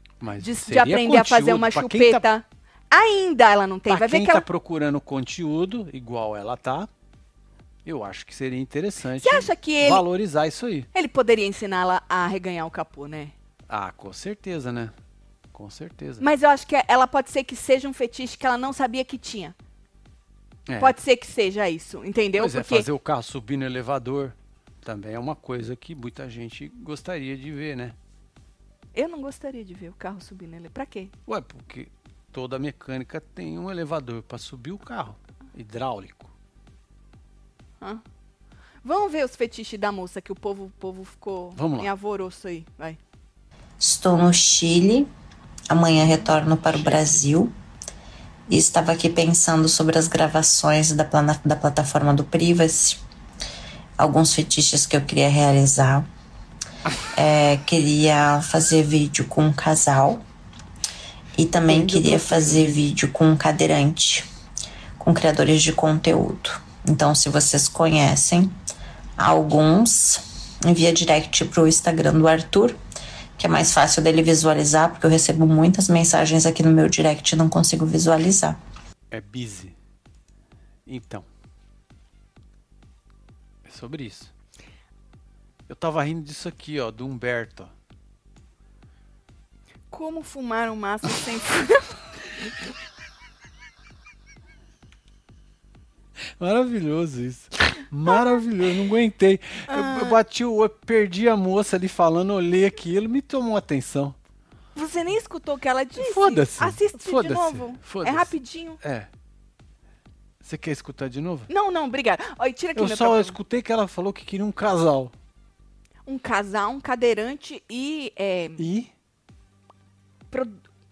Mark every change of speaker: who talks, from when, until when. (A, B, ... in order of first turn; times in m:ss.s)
0:00.2-0:02.2 A
0:00.4-0:04.4 B
0:03.9-0:06.9 A
0:07.8-0:10.9 A
0:09.2-0:10.0 B
0:10.9-0:13.3 B
0:13.7-0:14.9 A
0:15.5-0:16.2 A
0:16.2-0:19.5 B
0:20.7-0:20.9 A
0:20.8-0:22.9 B
0:22.4-0:27.9 A
0:28.9-0:31.1 B
0:31.3-0:36.3 A
0:38.8-0:43.0 B
0:41.6-0:41.9 A
0:43.8-0:45.1 C
0:45.7-0:47.5 C
0:46.5-0:47.2 A
0:48.5-0:53.0 C
0:54.0-0:56.1 C
0:57.1-1:00.2 C
1:01.4-1:04.3 C
1:01.6-1:02.8 A
1:05.0-1:08.5 C
1:09.2-1:12.8 C
1:13.4-1:18.6 C
1:19.1-1:19.8 A
1:20.9-1:21.3 A
1:23.6-1:24.3 A
1:25.7-1:27.7 A
1:29.9-1:32.0 B
1:36.4-1:44.2 A
1:38.1-1:38.4 B
1:39.7-1:40.2 B
1:44.8-1:48.8 B
1:46.0-1:49.1 A
1:50.4-1:51.5 A
1:51.5-1:53.4 B
1:52.8-1:55.1 A
1:56.1-1:58.6 B
1:58.6-1:58.9 A
2:00.3-2:00.6 B